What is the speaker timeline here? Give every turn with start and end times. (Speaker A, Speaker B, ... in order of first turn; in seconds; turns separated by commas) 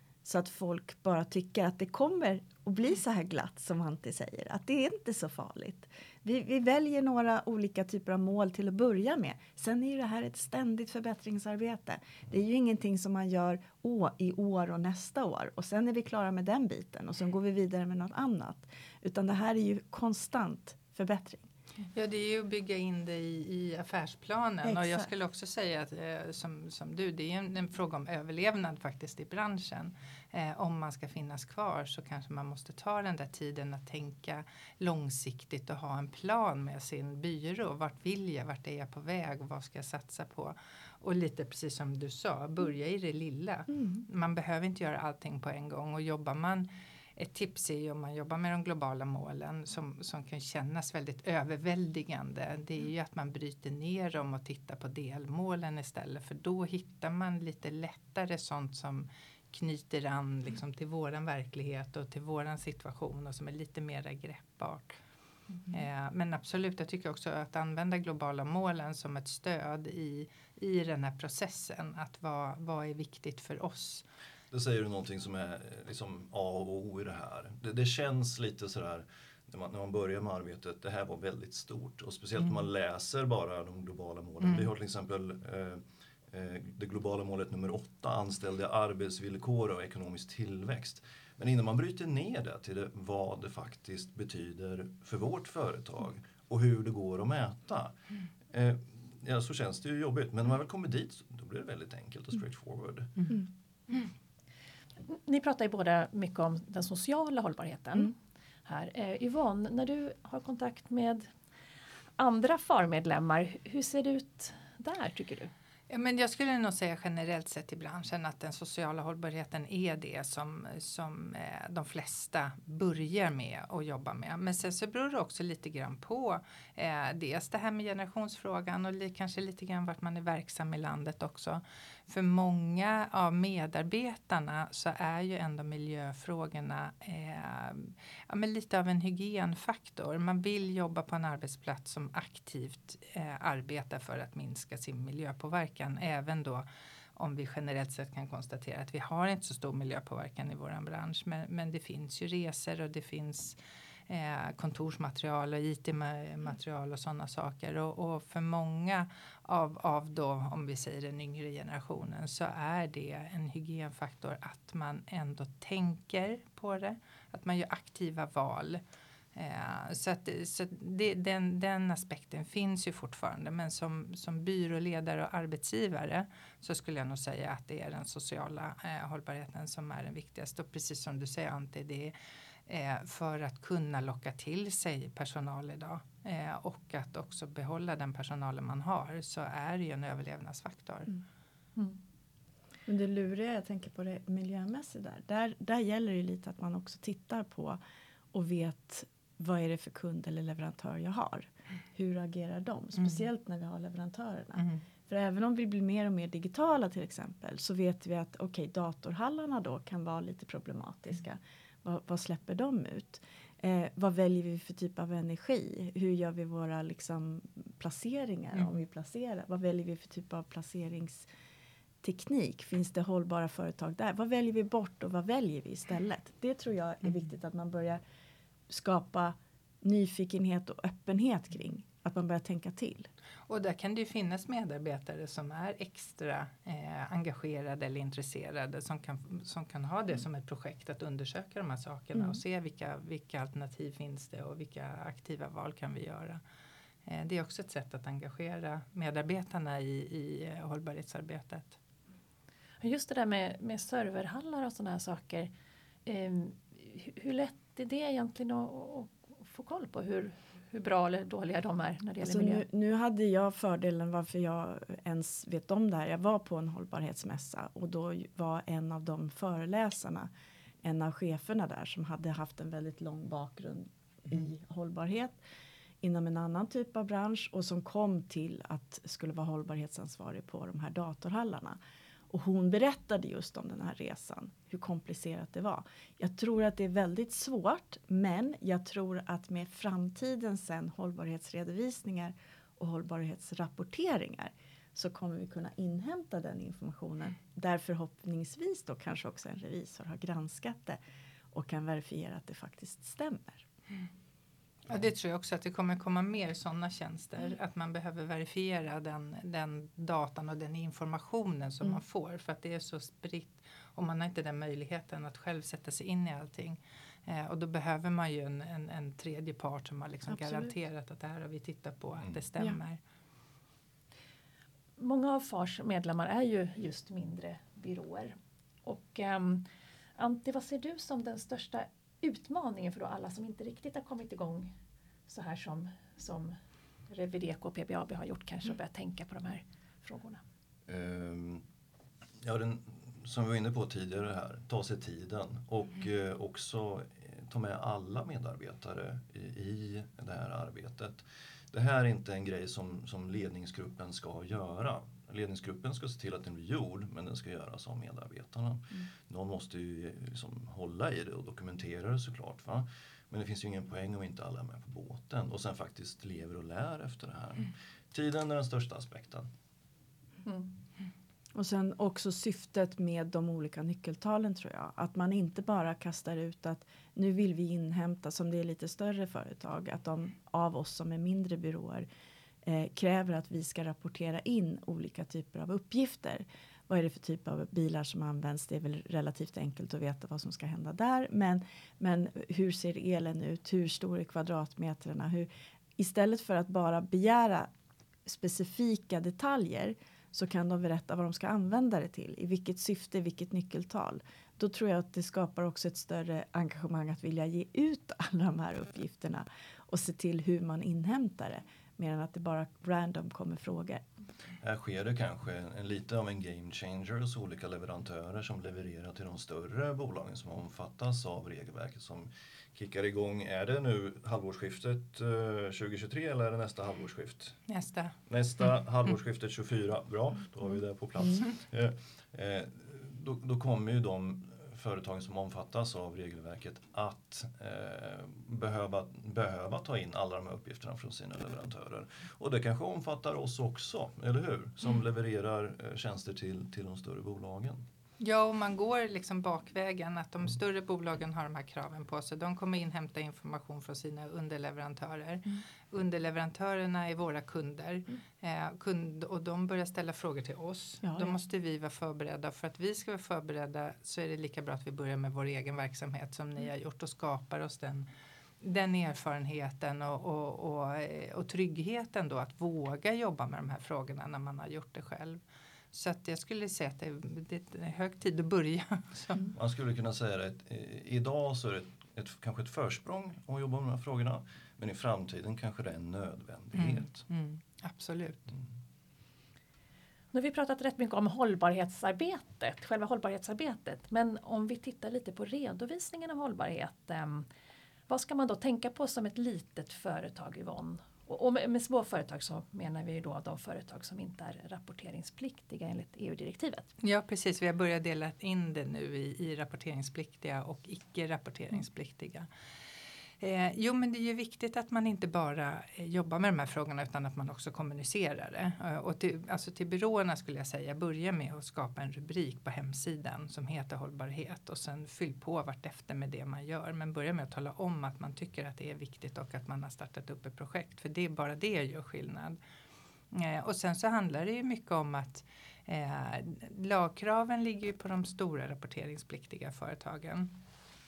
Speaker A: 0.2-21.5, Speaker B: 21.9-65.0, Speaker A: 24.6-25.1, Speaker B: 65.7-74.0, Speaker C: 74.5-97.9, Speaker C: 98.5-103.2, Speaker D: 105.1-111.3, Speaker D: 112.2-115.5, Speaker B: 115.9-146.6, Speaker B: 147.2-153.6, Speaker B: 154.1-168.8, Speaker B: 169.3-182.1, Speaker B: 182.7-191.2, Speaker A: 192.8-197.8, Speaker A: 198.3-221.3, Speaker A: 222.0-228.0, Speaker A: 228.7-233.1, Speaker B: 233.5-246.4, Speaker B: 247.1-251.8, Speaker D: 252.8-255.5, Speaker D: 256.1-262.6, Speaker A: 262.2-270.3, Speaker A: 270.8-275.4, Speaker A: 276.0-281.8, Speaker A: 282.3-301.0, Speaker A: 301.5-303.6, Speaker B: 304.9-323.0, Speaker A: 320.4-320.6, Speaker D: 325.0-334.7, Speaker D: 335.3-336.6, Speaker D: 337.1-340.4, Speaker C: 340.9-341.6, Speaker C: 342.4-369.5, Speaker D: 370.4-370.7, Speaker A: 371.5-382.1, Speaker A: 382.6-397.7, Speaker A: 398.2-414.0, Speaker C: 414.6-427.6, Speaker B: 427.7-428.1, Speaker C: 428.3-447.8, Speaker B: 448.2-468.1, Speaker A: 461.0-461.4, Speaker B: 468.6-475.4, Speaker B: 475.9-479.5, Speaker C: 479.5-487.2, Speaker B: 486.7-488.5, Speaker D: 490.3-497.5, Speaker D: 498.1-506.9, Speaker B: 507.0-512.5, Speaker B: 513.4-532.6, Speaker B: 533.3-540.5